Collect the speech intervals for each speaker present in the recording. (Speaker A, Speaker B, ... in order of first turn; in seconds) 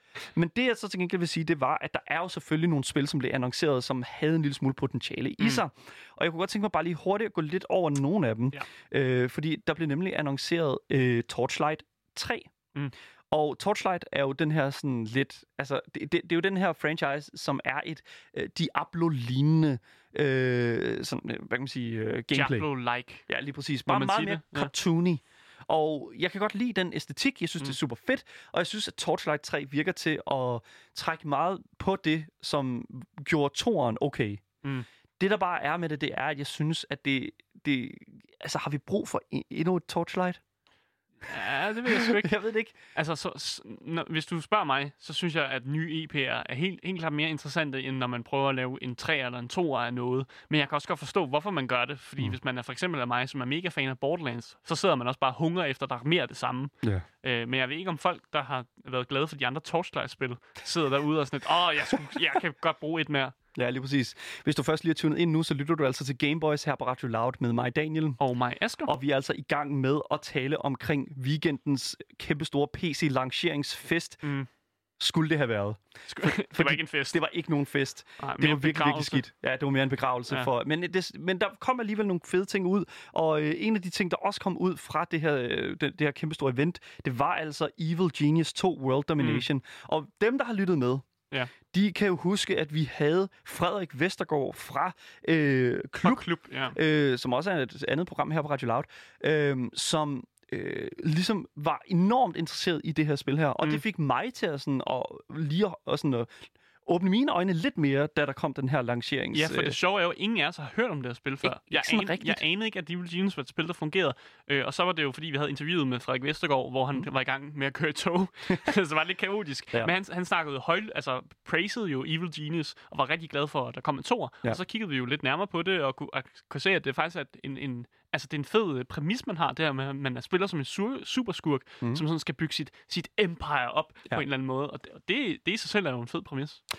Speaker A: 0.3-12.5, 13.3-22.7, 23.3-34.4, 35.2-40.4, 41.9-42.8, 63.5-68.2, 68.8-74.2, 75.0-91.1, 91.7-106.3, 106.9-109.8, 111.4-112.4
Speaker B: 22.3-23.3, 23.9-24.7, 41.2-42.3, 42.9-63.4, 68.2-68.9, 74.2-74.5, 76.1-77.2, 78.2-79.2, 89.2-89.5, 96.0-96.8, 109.3-136.6